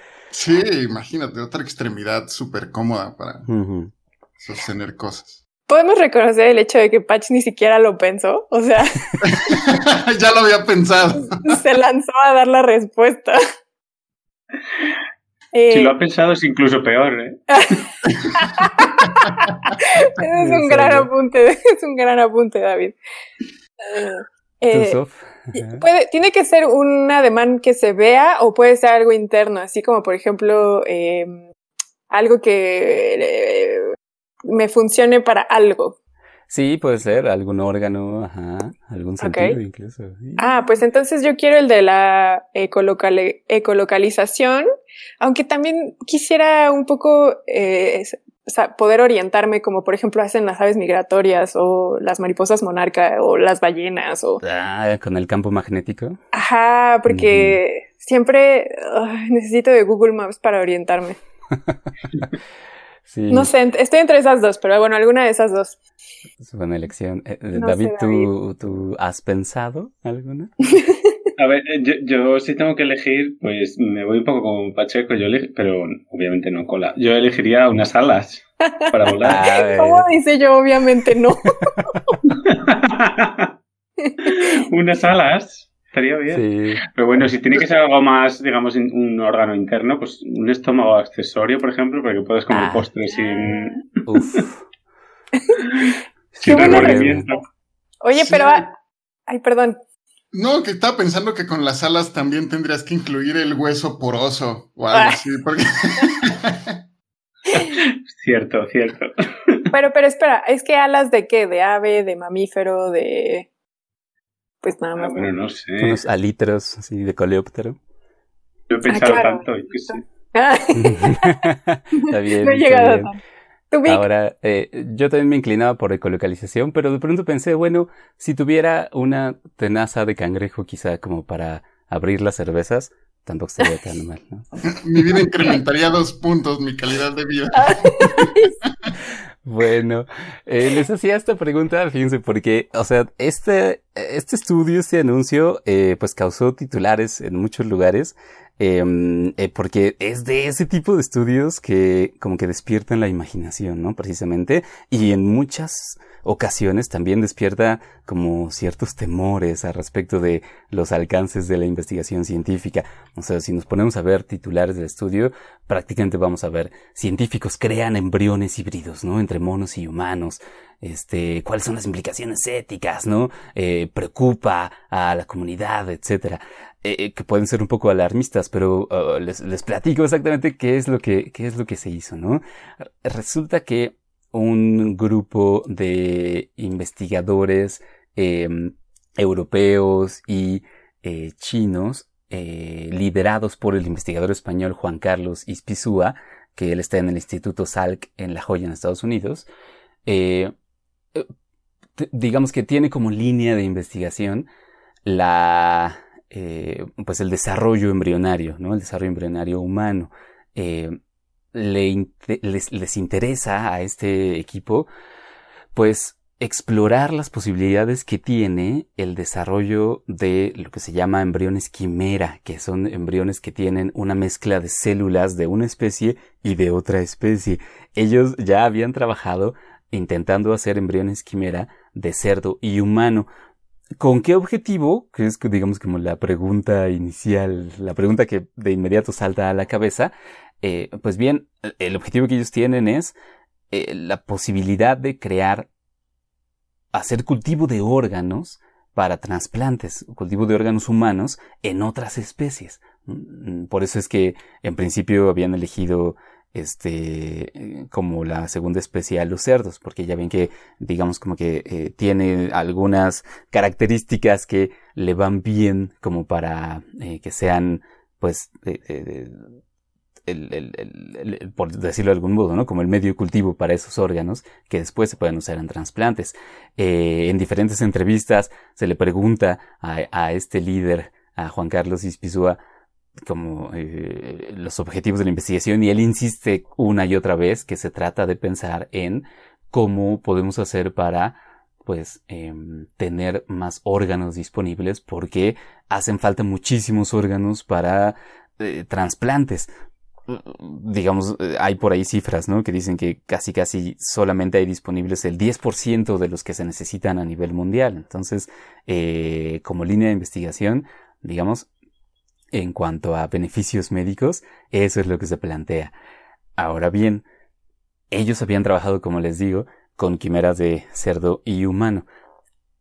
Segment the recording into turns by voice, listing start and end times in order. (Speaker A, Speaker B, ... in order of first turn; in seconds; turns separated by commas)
Speaker A: 0.3-3.5, Speaker B: 3.5-3.9, Speaker A: 4.4-5.4, Speaker C: 5.7-9.3, Speaker A: 9.2-11.6, Speaker C: 11.4-13.4, Speaker C: 15.5-15.9, Speaker D: 15.7-17.4, Speaker C: 17.5-23.0, Speaker A: 19.0-19.3, Speaker B: 20.4-21.1, Speaker C: 23.9-25.0, Speaker B: 24.7-25.8, Speaker C: 25.6-31.5, Speaker C: 32.1-33.9, Speaker C: 34.5-36.0, Speaker B: 36.5-40.5, Speaker C: 39.2-39.6, Speaker C: 40.4-44.6, Speaker C: 45.2-54.4, Speaker B: 54.4-56.2, Speaker C: 56.3-61.2, Speaker B: 57.1-57.6, Speaker B: 63.1-63.5, Speaker C: 63.3-65.8, Speaker B: 66.4-70.5, Speaker C: 67.5-68.3, Speaker D: 71.4-79.4, Speaker B: 79.2-80.1, Speaker C: 79.7-81.9, Speaker D: 82.4-83.5, Speaker C: 84.0-84.5, Speaker D: 84.2-94.4, Speaker B: 86.3-86.8, Speaker B: 92.5-92.9, Speaker B: 94.1-94.6, Speaker D: 95.6-97.4, Speaker B: 96.4-97.3, Speaker C: 96.4-97.2, Speaker C: 98.0-98.7, Speaker A: 98.2-98.7, Speaker C: 99.3-99.8, Speaker A: 100.3-106.8, Speaker D: 107.7-109.7, Speaker C: 109.7-113.5, Speaker C: 114.6-115.3, Speaker D: 115.0-116.0, Speaker B: 115.8-117.8, Speaker D: 118.7-120.0, Speaker C: 118.9-121.4, Speaker B: 120.8-123.1, Speaker C: 122.0-123.2, Speaker C: 123.7-124.0, Speaker B: 123.8-134.5, Speaker A: 134.6-138.3, Speaker C: 137.6-138.5, Speaker B: 139.4-199.5, Speaker B: 200.1-200.5, Speaker B: 202.0-204.5, Speaker B: 205.1-211.0, Speaker B: 211.5-214.9, Speaker B: 215.7-233.3, Speaker B: 234.0-243.2, Speaker B: 243.7-245.7, Speaker B: 246.9-269.5, Speaker B: 270.3-282.6, Speaker B: 283.2-299.7, Speaker B: 300.3-311.7, Speaker B: 312.5-315.9, Speaker B: 316.6-317.2, Speaker B: 318.1-322.1